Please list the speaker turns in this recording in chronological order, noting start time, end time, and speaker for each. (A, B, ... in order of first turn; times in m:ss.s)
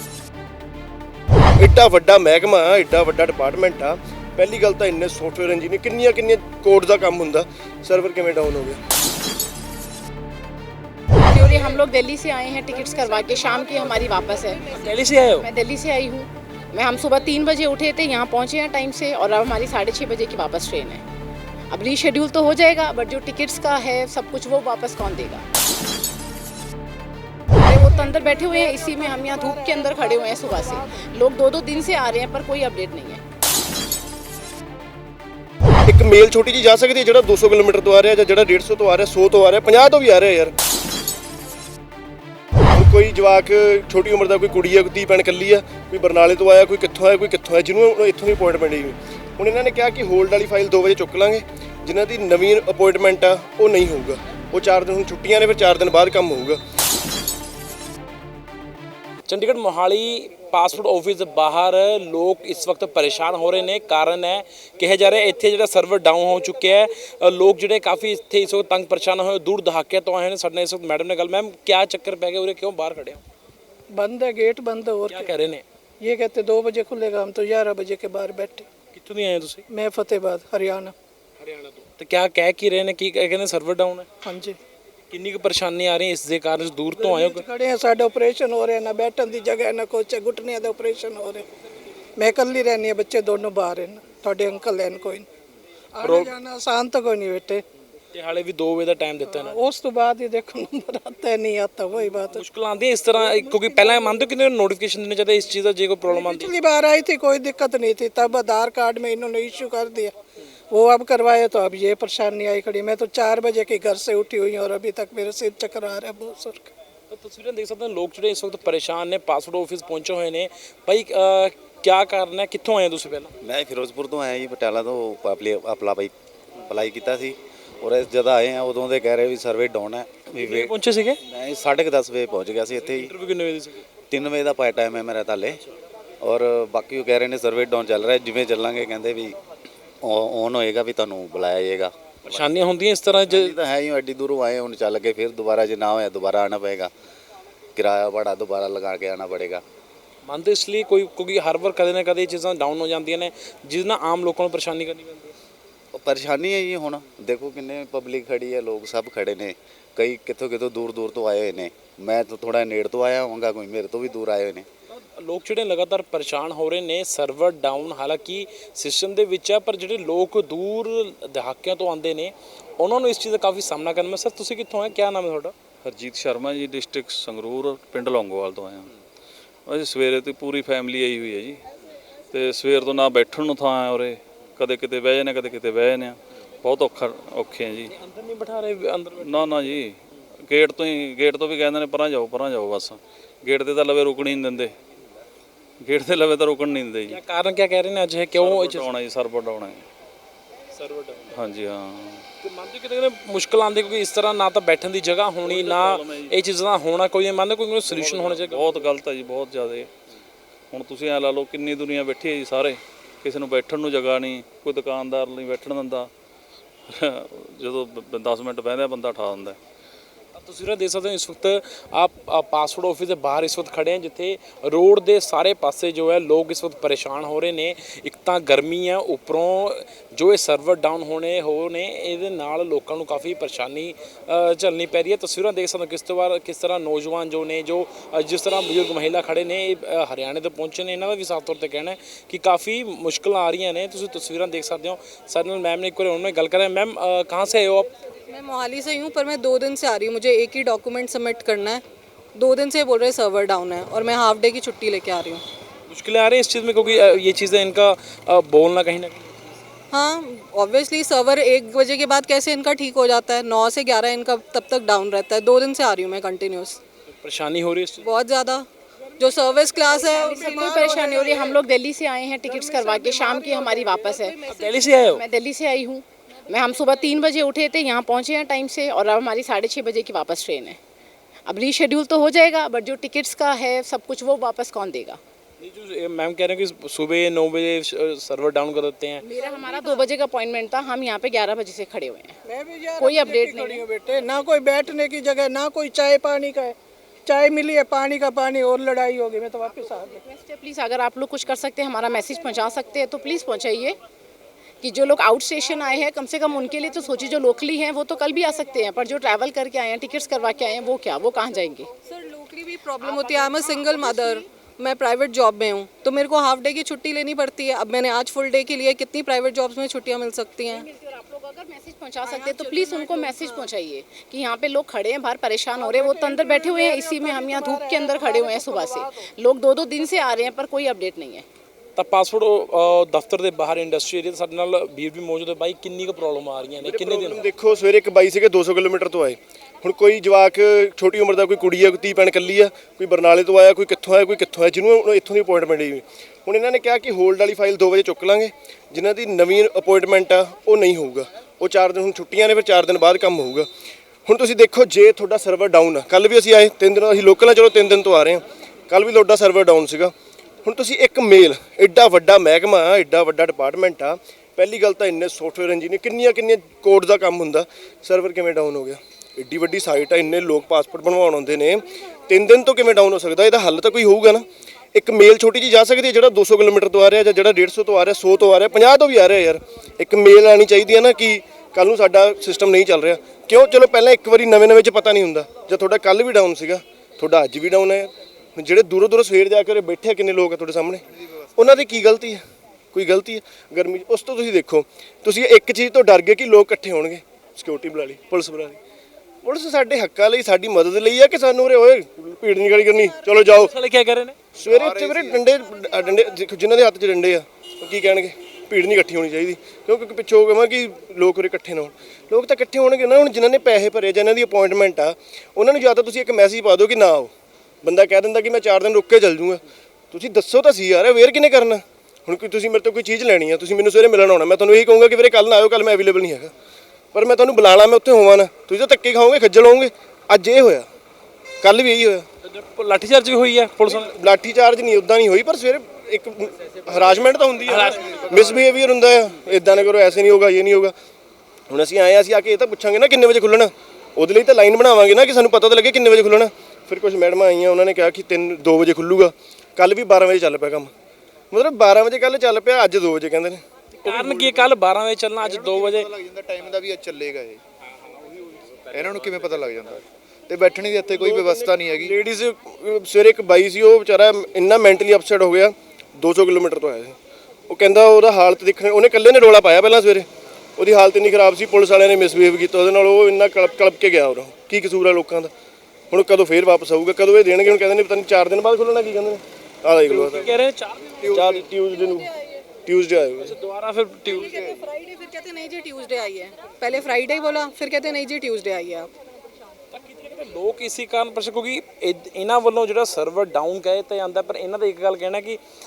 0:01.6-0:08.8 A
0:11.2-0:14.8 B
0:14.7-0:15.5 C
0:15.4-0:21.0 B
0:21.7-0:25.4 B
0:27.6-0:33.2 B
0:27.8-0:31.1 D
0:35.9-0:40.5 A
0:42.7-0:56.6 A
0:59.3-1:13.2 C
1:13.9-1:15.3 D
1:15.1-1:15.6 C
1:16.0-1:18.7 D
1:18.9-1:19.6 C
1:19.7-1:20.9 D
1:21.4-1:24.1 C
1:24.2-1:24.6 D
1:25.1-1:27.4 C
1:26.9-1:31.5 D
1:32.2-1:35.3 D
1:36.0-1:37.6 D
1:36.0-1:36.4 C
1:38.1-1:39.6 C
1:39.3-1:42.4 D
1:42.0-1:46.5 C
1:43.2-1:44.0 D
1:46.1-1:50.1 D
1:50.7-1:56.7 D
1:57.1-2:03.3 C
2:03.4-2:13.1 E
2:10.4-2:11.2 C
2:12.8-2:13.8 C
2:14.1-2:15.6 E
2:16.2-2:19.4 E
2:20.0-2:22.5 E
2:22.2-2:23.6 C
2:23.3-2:26.9 E
2:27.8-2:29.6 E
2:30.3-2:35.3 C
2:35.9-2:44.7 E
2:44.9-2:55.5 C
2:55.8-2:58.9 F
2:59.7-3:01.6 F
3:02.3-3:07.9 F
3:07.9-3:09.7 C
3:09.2-3:14.7 F
3:15.8-3:17.2 F
3:17.1-3:18.9 C
3:18.4-3:19.9 F
3:20.8-3:21.3 C
3:21.3-3:22.2 F
3:22.4-3:28.9 C
3:25.4-3:26.3 F
3:27.9-3:29.9 F
3:30.7-3:36.1 F
3:36.9-3:39.6 F
3:40.4-4:07.9 C
4:08.3-4:11.8 G
4:12.4-4:15.4 G
4:15.9-4:19.6 C
4:19.9-4:26.8 G
4:27.1-4:28.2 C
4:28.0-4:28.7 G
4:29.2-4:30.8 G
4:30.0-4:31.6 D
4:30.3-4:40.8 B
4:32.8-4:34.1 D
4:34.5-4:35.2 C
4:41.5-4:45.2 B
4:45.6-4:49.2 C
4:49.2-4:52.4 B
4:49.6-4:50.0 D
4:52.5-4:56.8 D
4:53.0-4:53.8 B
4:57.3-5:00.2 D
5:00.2-5:04.0 B
5:04.8-5:11.9 B
5:12.1-5:20.9 G
5:13.0-5:14.4 B
5:20.7-5:31.4 B
5:22.2-5:23.7 G
5:25.8-5:29.2 D
5:32.0-5:37.4 C
5:36.8-5:53.7 A
5:54.3-6:00.1 A
6:00.6-6:31.0 A
6:31.6-6:38.8 A
6:39.4-6:43.7 A
6:43.6-6:44.4 C
6:44.6-6:57.3 A
6:44.7-6:45.4 H
6:57.8-7:06.5 A
7:07.1-7:10.9 A
7:11.6-7:12.3 A
7:12.4-7:14.1 C
7:13.8-7:21.0 A
7:17.7-7:18.6 C
7:21.7-7:30.9 A
7:31.5-7:34.3 A
7:34.0-7:36.1 C
7:35.5-7:37.6 H
7:38.9-7:42.1 H
7:41.1-7:47.2 A
7:47.7-7:55.5 A
7:56.1-8:00.6 A
8:00.1-8:01.5 C
8:01.3-8:02.3 A
8:02.9-8:03.6 A
8:03.4-8:04.6 C
8:04.3-8:09.1 G
8:09.9-8:15.6 C